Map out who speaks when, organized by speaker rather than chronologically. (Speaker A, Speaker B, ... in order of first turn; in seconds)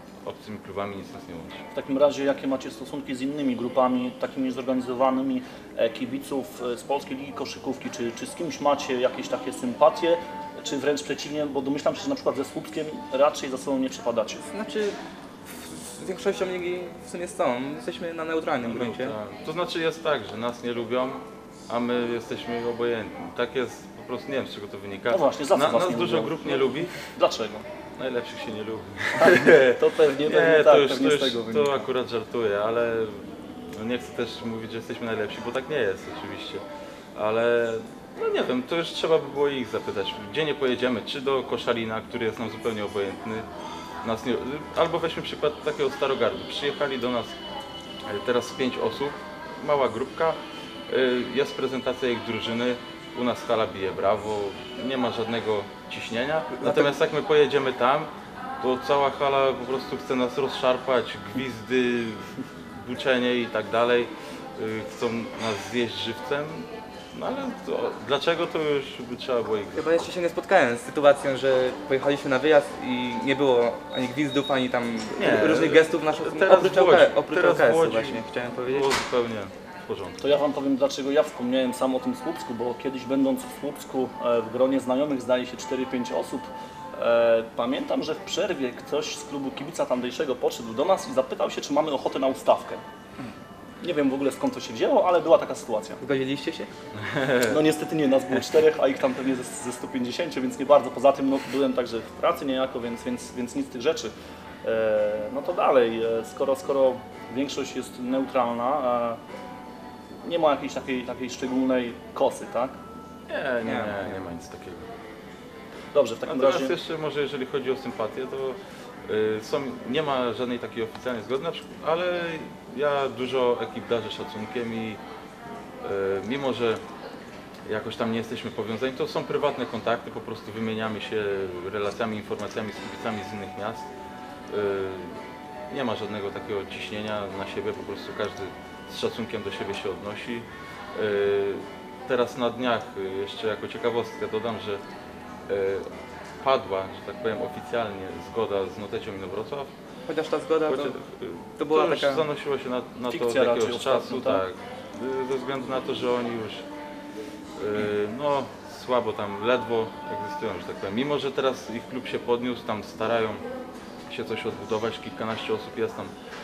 Speaker A: 0.2-1.6, 18.6-27.0, 28.0-36.6, 37.1-43.4, 44.0-47.3, 48.1-50.4, 50.9-58.1, 58.6-69.9, 75.1-80.2, 97.0-97.5, 113.3-114.9, 116.3-125.0, 125.8-126.8, 127.7-133.9, 134.5-144.8, 145.5-145.8, 146.4-149.7, 150.7-156.6, 157.6-163.4, 164.1-166.1
Speaker B: 1.7-14.4, 25.1-27.6, 29.2-31.8, 80.2-92.8, 93.8-96.0, 97.4-104.1, 104.6-109.2, 110.2-112.8, 115.9-116.8, 153.1-154.4
Speaker C: 14.4-19.2, 56.5-56.9, 69.7-78.9, 96.0-96.7, 113.6-114.2, 150.1-151.0, 151.6-152.3